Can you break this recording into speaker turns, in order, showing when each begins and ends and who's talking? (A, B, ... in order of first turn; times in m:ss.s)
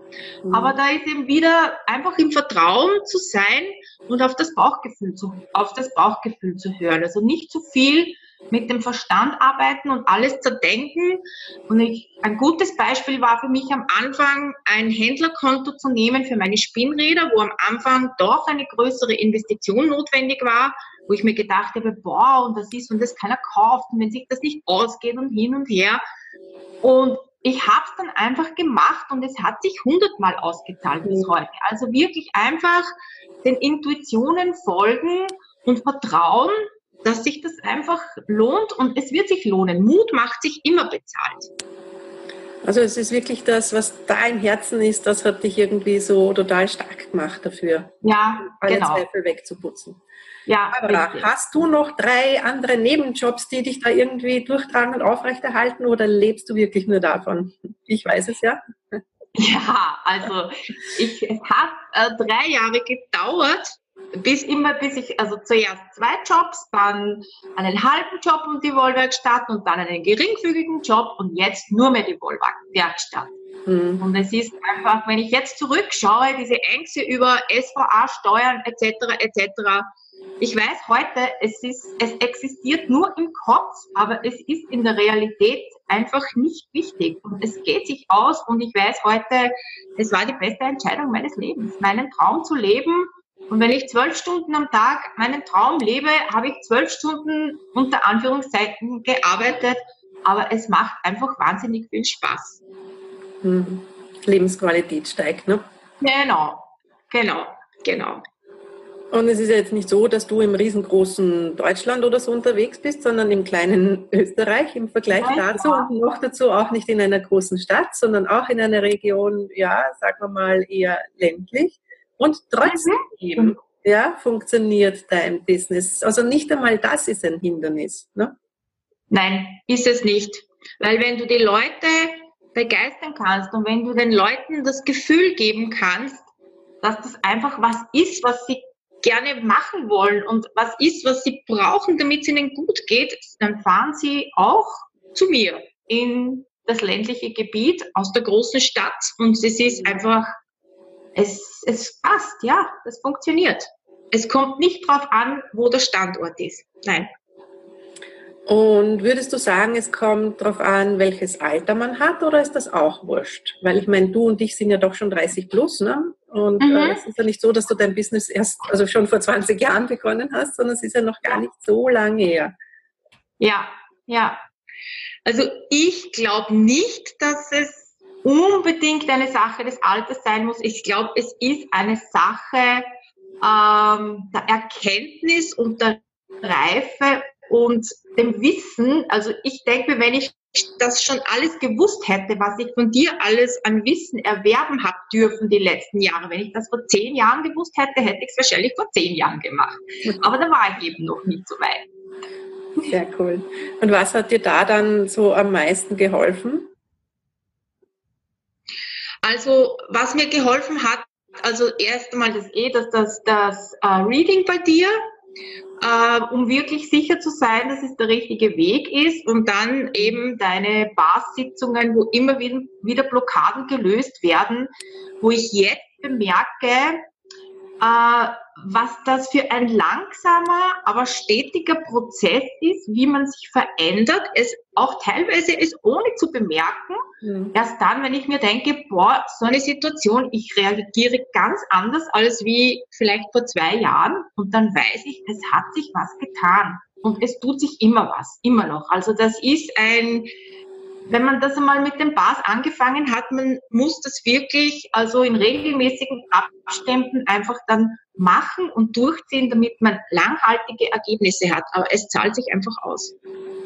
0:00.4-0:00.8 A
0:00.5-0:26.0 B
0:26.8-0:32.9 B
0:33.4-0:41.5 B
0:42.6-0:47.9 A
0:48.0-0:49.0 B
0:48.4-0:50.0 A
0:50.5-0:51.3 B
0:50.7-0:59.0 A
0:59.4-1:13.3 B
1:13.7-1:14.0 A
1:14.0-1:19.9 B
1:20.4-1:42.6 B
1:43.4-1:45.6 A
1:46.0-1:48.2 B
1:49.1-2:08.3 A
1:55.2-1:55.9 B
2:02.6-2:03.6 B
2:09.1-2:16.3 B
2:16.8-2:30.3 B
2:31.1-2:37.1 B
2:38.5-2:52.5 A
2:46.6-2:47.0 B
2:53.4-2:54.4 B
2:55.2-3:02.8 B
3:03.4-3:21.9 B
3:22.9-3:26.7 A
3:29.2-3:35.0 B
3:35.8-3:44.7 B
3:45.2-3:47.0 B
3:47.8-3:57.0 B
3:57.2-3:57.5 A
3:57.5-4:10.3 B
4:11.1-4:23.1 B